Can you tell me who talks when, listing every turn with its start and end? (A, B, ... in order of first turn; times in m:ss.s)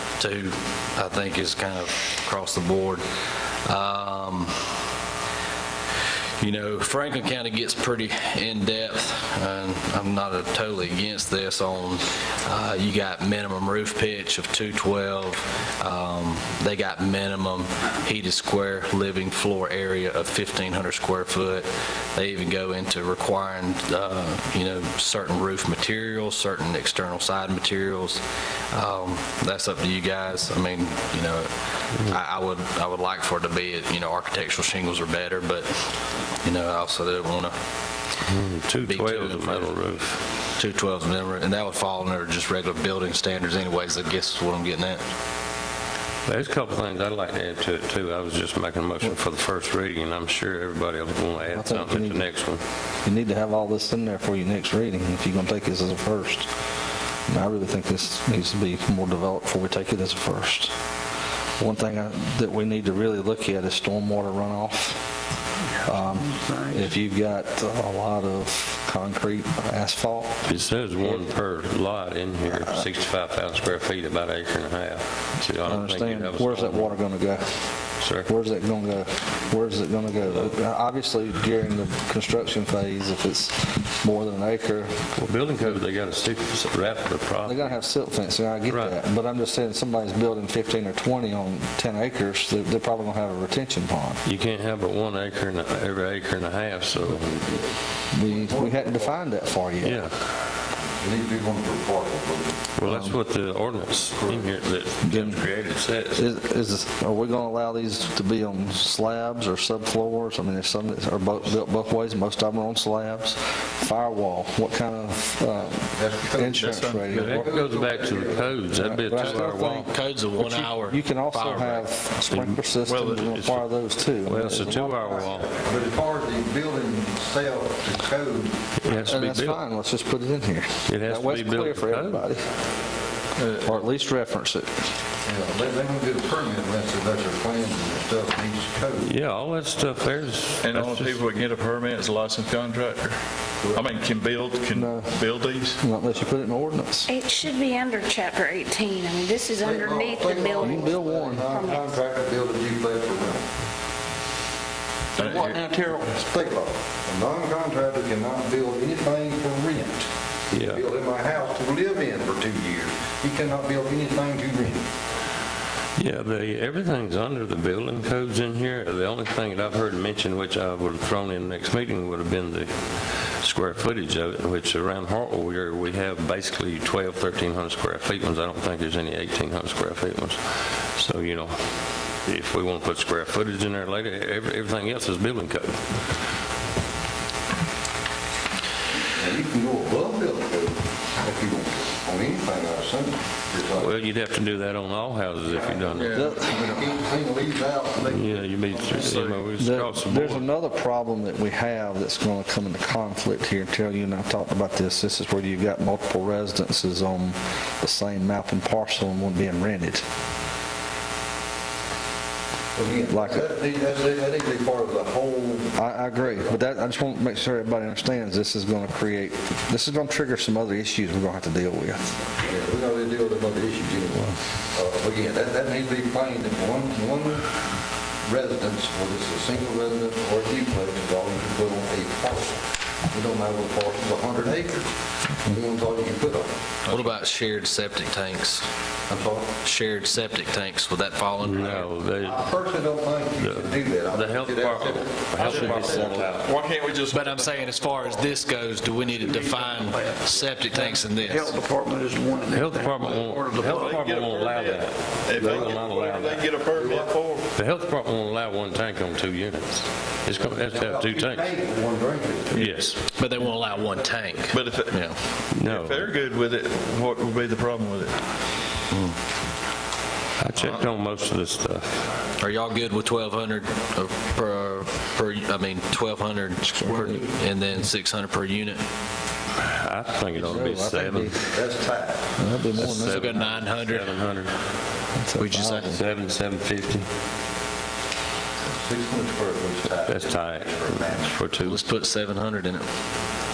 0:00.2-0:03.0 A
0:03.6-0:04.7 A
0:06.4-0:28.2 A
0:28.7-0:37.6 A
0:38.2-0:40.2 B
0:38.8-0:39.7 A
0:40.6-0:45.0 A
0:46.2-0:52.6 B
0:51.5-0:52.2 C
0:53.0-0:56.5 C
0:57.3-1:00.7 C
1:01.6-1:05.0 C
1:05.8-1:10.4 C
1:10.4-1:17.0 B
1:15.6-1:17.7 C
1:18.0-1:18.3 B
1:18.2-1:25.0 C
1:25.1-1:27.8 B
1:27.4-1:34.2 C
1:28.7-1:29.0 B
1:34.2-1:37.6 B
1:38.1-1:40.0 C
1:38.2-1:39.2 D
1:39.8-1:40.1 B
1:41.0-1:42.6 D
1:42.8-1:46.3 B
1:42.8-1:43.2 C
1:44.2-1:44.5 D
1:45.0-1:45.4 C
1:46.1-1:57.6 C
1:55.9-1:56.7 D
1:56.6-1:57.4 E
1:57.1-1:59.9 B
1:57.3-1:58.6 D
1:58.7-2:05.5 C
1:59.2-2:01.8 A
2:02.3-2:02.6 B
2:02.8-2:03.4 E
2:03.3-2:03.6 B
2:04.2-2:05.5 B
2:05.5-2:08.6 D
2:08.8-2:09.6 B
2:08.9-2:12.4 C
2:10.9-2:12.2 B
2:13.4-2:13.8 E
2:13.6-2:14.8 C
2:15.2-2:19.1 D
2:19.0-2:21.3 B
2:20.6-2:23.2 E
2:23.6-2:23.9 D
2:23.7-2:25.8 E
2:24.7-2:25.1 C
2:25.8-2:27.1 C
2:27.1-2:32.0 F
2:29.6-2:33.4 D
2:30.6-2:31.6 C
2:35.2-2:36.2 E
2:36.1-2:44.8 D
2:40.5-2:40.8 B
2:46.0-3:01.5 B
3:02.2-3:06.0 B
3:09.2-3:14.1 D
3:13.7-3:16.2 B
3:15.4-3:19.1 D
3:15.9-3:16.4 E
3:16.1-3:16.6 C
3:18.0-3:20.5 B
3:18.9-3:19.6 E
3:19.6-3:30.0 C
3:32.8-3:36.5 D
3:33.1-3:33.5 C
3:35.7-3:42.1 C
3:42.4-3:47.4 D
3:48.2-3:52.6 D
3:53.1-3:54.9 D
3:55.4-3:56.5 D
3:56.9-3:58.6 A
3:59.1-3:59.5 D
3:59.6-4:01.9 A
4:01.4-4:02.5 B
4:02.2-4:06.2 D
4:03.4-4:06.5 B
4:05.4-4:08.1 E
4:07.1-4:11.6 A
4:11.4-4:13.4 G
4:12.5-4:16.5 B
4:13.5-4:17.5 E
4:16.7-4:17.1 D
4:17.5-4:21.5 B
4:20.5-4:22.6 D
4:22.5-4:22.8 E
4:22.5-4:23.0 B
4:23.2-4:25.2 A
4:24.5-4:28.2 E
4:25.5-4:26.1 B
4:28.9-4:29.2 A
4:30.4-4:32.2 B
4:32.4-4:38.8 A
4:36.8-4:37.2 C
4:39.6-4:41.5 B
4:40.4-4:41.4 C
4:41.4-4:42.3 D
4:42.4-4:43.6 C
4:42.7-4:44.6 B
4:42.8-4:44.1 A
4:45.1-4:46.0 C
4:45.4-4:46.0 A
4:45.8-4:47.1 B
4:48.7-4:51.3 D
4:50.0-4:51.8 B
4:51.6-4:52.8 A